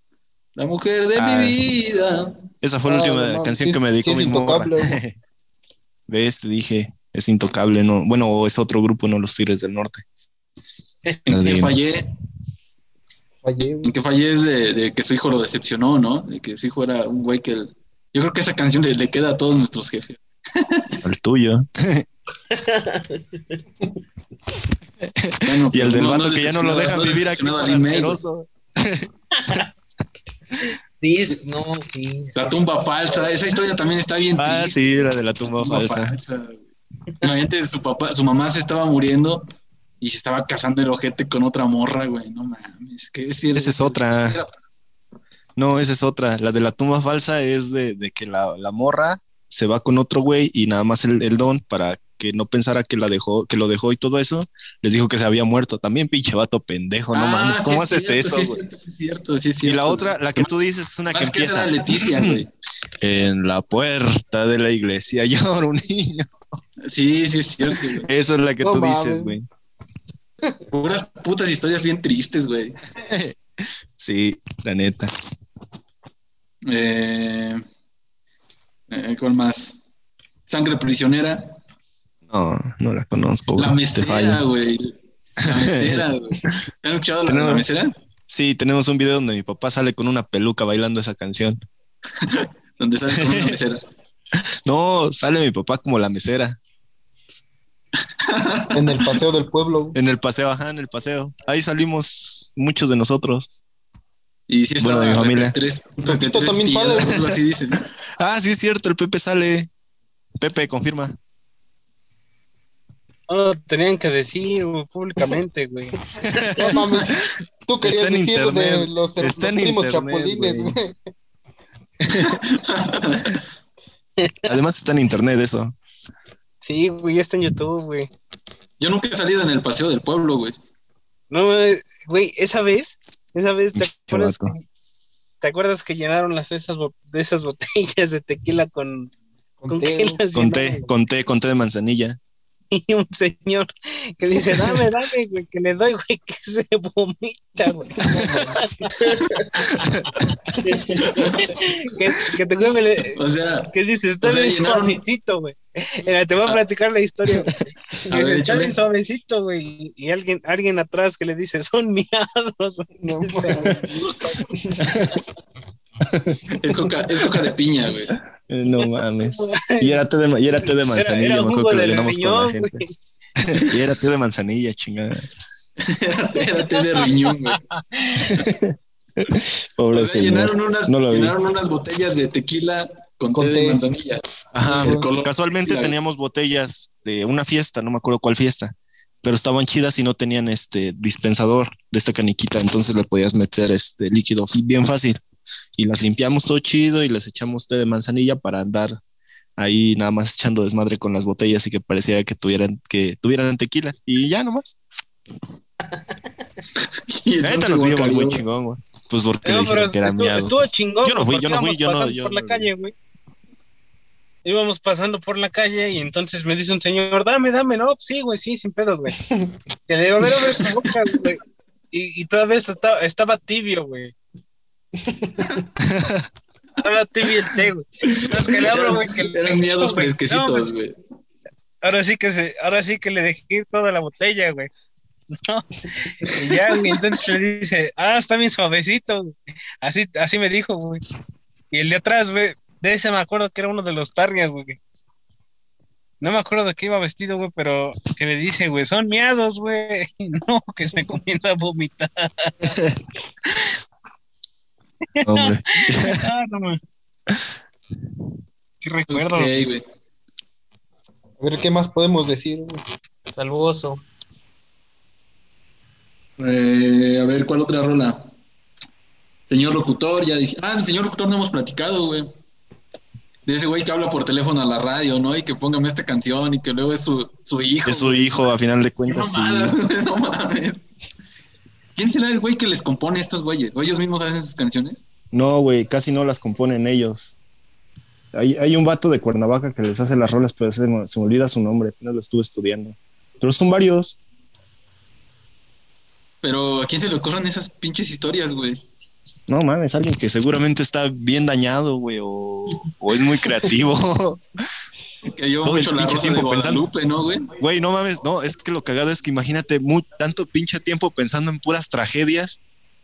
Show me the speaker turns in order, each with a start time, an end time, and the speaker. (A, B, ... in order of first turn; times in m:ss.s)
0:00.6-0:02.5 A
0:01.2-0:01.6 B
0:02.6-0:05.2 B
0:02.9-0:05.0 C
0:06.1-0:10.0 B
0:11.3-0:12.1 A
0:11.3-0:11.8 B
0:13.4-0:13.9 C
0:13.8-0:21.0 A
0:21.0-0:22.1 B
0:22.5-0:23.2 D
0:25.0-0:29.6 B
0:25.4-0:28.2 A
0:31.0-0:32.6 D
0:32.4-0:36.6 A
0:34.4-0:36.2 B
0:37.2-0:39.5 A
0:40.0-0:44.5 A
0:43.6-0:44.4 B
0:45.6-0:58.6 B
0:57.1-1:00.5 A
0:59.6-1:02.4 B
1:01.1-1:02.5 A
1:03.0-1:06.3 B
1:06.8-1:08.1 A
1:07.6-1:09.5 B
1:08.6-1:09.4 C
1:10.7-1:12.8 A
1:13.0-1:13.4 B
1:14.0-1:15.1 B
1:16.7-1:17.6 A
1:18.9-1:19.8 A
1:20.5-1:21.6 A
1:22.3-1:24.4 B
1:23.6-1:27.9 A
1:25.4-1:26.1 B
1:27.3-1:27.7 B
1:28.3-1:31.6 B
1:32.2-1:33.8 A
1:33.1-1:33.6 B
1:34.7-1:36.6 B
1:38.2-1:39.2 A
1:38.7-1:40.0 C
1:40.0-1:43.5 B
1:44.5-1:47.8 A
1:44.8-1:45.6 B
1:46.0-1:47.4 C
1:48.2-1:49.7 B
1:50.4-1:51.2 B
1:53.3-1:55.9 E
1:56.3-1:57.2 B
1:56.6-2:01.0 C
1:57.8-2:00.8 B
2:02.0-2:02.4 B
2:02.1-2:03.4 A
2:04.2-2:04.6 E
2:04.4-2:05.8 B
2:06.6-2:08.1 E
2:08.8-2:10.6 A
2:11.3-2:14.6 E
2:13.7-2:14.6 B
2:15.4-2:19.1 E
2:19.6-2:20.2 C
2:19.7-2:20.8 E
2:20.3-2:22.2 B
2:22.7-2:29.8 E
2:28.0-2:28.9 C
2:30.6-2:31.0 C
2:30.9-2:33.2 E
2:31.0-2:31.5 A
2:33.1-2:35.0 A
2:33.7-2:43.7 E
2:38.1-2:38.8 A
2:43.0-2:45.0 C
2:44.8-2:45.2 B
2:46.1-2:46.6 B
2:46.6-2:48.2 A
2:48.4-2:52.8 B
2:49.2-2:50.0 E
2:50.9-2:52.9 E
2:53.4-2:55.3 B
2:55.8-2:57.6 A
2:56.9-2:58.4 E
2:58.2-3:01.4 B
2:59.9-3:06.0 A
3:03.3-3:03.8 C
3:04.5-3:15.2 B
3:15.8-3:19.0 B
3:19.6-3:24.8 B
3:26.8-3:28.4 A
3:27.4-3:32.7 B
3:29.4-3:32.9 E
3:34.4-3:39.1 E
3:39.3-3:39.6 C
3:39.9-3:41.4 E
3:41.9-3:44.1 E
3:45.0-3:45.6 C
3:45.8-3:46.3 B
3:46.8-3:50.7 E
3:48.0-3:51.0 A
3:51.8-3:54.7 E
3:55.3-4:01.0 E
4:01.7-4:04.8 E
4:06.2-4:12.8 E
4:12.7-4:13.0 B
4:15.2-4:16.8 E
4:15.2-4:16.2 B
4:18.8-4:19.7 E
4:19.1-4:19.8 A
4:21.4-4:22.8 C
4:23.3-4:24.0 D
4:26.4-4:28.3 A
4:29.5-4:32.3 A
4:33.5-4:38.3 A
4:37.8-4:39.8 B
4:39.1-4:40.8 A
4:42.0-4:45.0 A
4:45.3-4:47.4 B
4:48.3-4:54.2 B
4:56.4-4:58.8 A
4:59.5-5:04.4 B
5:05.3-5:07.5 A
5:05.6-5:06.9 B
5:07.6-5:12.6 B